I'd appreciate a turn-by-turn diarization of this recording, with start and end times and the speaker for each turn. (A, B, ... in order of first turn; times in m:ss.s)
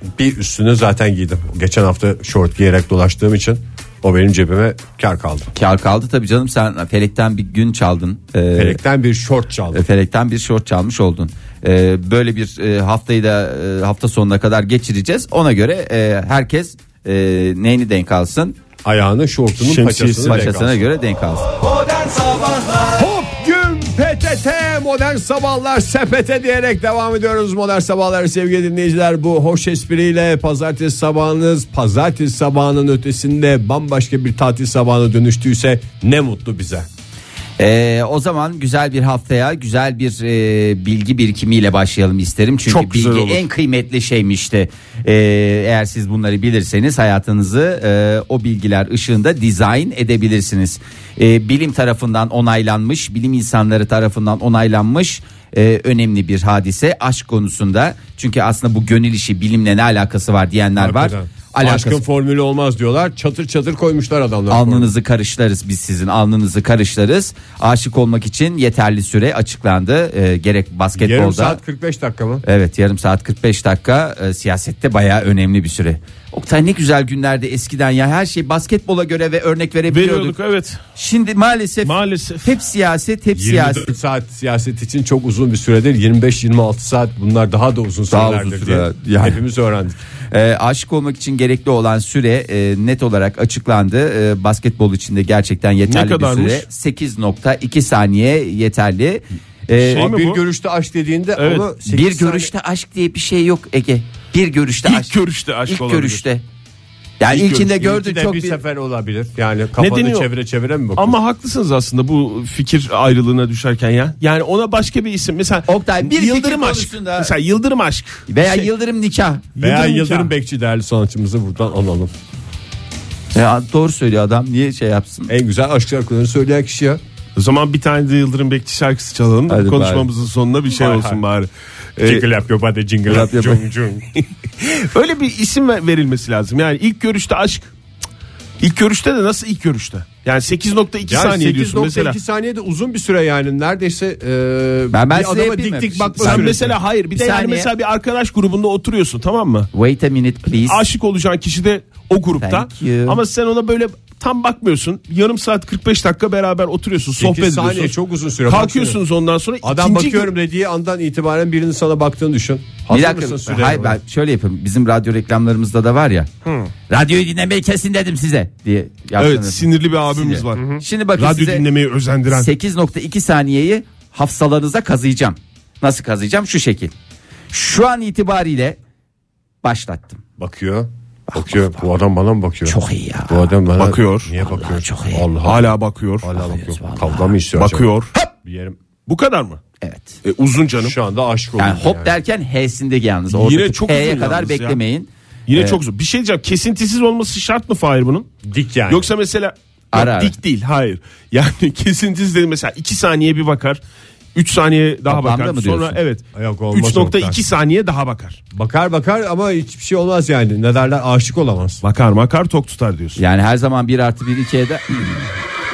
0:00.2-0:05.5 A
0:05.6-0:08.8 B
0:08.6-0:09.8 A
0:09.7-0:18.6 B
0:18.8-0:20.8 A
0:19.6-0:20.4 C
0:20.2-0:21.5 B
0:22.6-0:36.9 A
0:37.6-1:02.0 B
0:42.7-0:43.4 C
1:00.8-1:04.9 A
1:04.5-1:11.6 B
1:11.0-1:12.4 A
1:12.4-1:20.4 B
1:19.9-1:20.8 C
1:21.0-1:23.9 B
1:21.8-1:22.6 C
1:23.4-1:30.0 A
1:28.1-1:29.4 B
1:30.3-1:40.1 B
1:35.9-1:36.6 C
1:39.8-1:42.5 A
1:39.9-1:40.4 C
1:41.4-1:41.7 C
1:41.9-1:46.4 B
1:44.8-1:46.2 C
1:47.2-1:48.6 B
1:47.3-1:51.2 A
1:49.8-1:50.3 C
1:51.0-1:58.7 C
1:55.7-1:57.3 B
1:58.3-1:59.4 B
1:59.6-2:00.3 C
1:59.6-2:02.1 A
2:03.3-2:05.3 B
2:05.3-2:07.0 A
2:07.4-2:12.3 C
2:09.5-2:10.1 B
2:10.7-2:11.2 A
2:12.0-2:14.1 A
2:13.1-2:13.6 B
2:14.2-2:17.7 C
2:18.6-2:22.2 C
2:21.1-2:26.8 A
2:24.9-2:27.7 B
2:26.2-2:29.7 C
2:29.7-2:30.8 B
2:30.6-2:38.0 C
2:32.4-2:33.2 B
2:37.2-2:39.0 A
2:38.5-2:40.3 C
2:39.6-2:44.0 A
2:42.9-2:46.3 B
2:46.9-2:51.7 B
2:49.2-2:52.5 C
2:50.6-2:50.8 A
2:52.3-2:56.9 B
2:57.5-2:58.8 B
2:59.6-3:00.2 B
3:00.4-3:08.8 A
3:01.3-3:01.7 B
3:02.7-3:03.5 B
3:03.8-3:04.3 C
3:04.4-3:05.3 B
3:05.4-3:06.3 C
3:06.3-3:07.4 B
3:07.6-3:08.1 C
3:09.1-3:09.6 C
3:09.8-3:10.2 B
3:10.2-3:11.0 C
3:10.8-3:12.2 A
3:11.6-3:15.8 B
3:13.3-3:14.8 C
3:15.5-3:18.3 C
3:18.4-3:19.1 A
3:18.9-3:23.8 C
3:19.9-3:20.4 B
3:24.4-3:28.4 C
3:25.1-3:26.0 B
3:26.3-3:27.4 A
3:28.5-3:31.8 A
3:31.8-3:33.2 C
3:33.2-3:35.2 B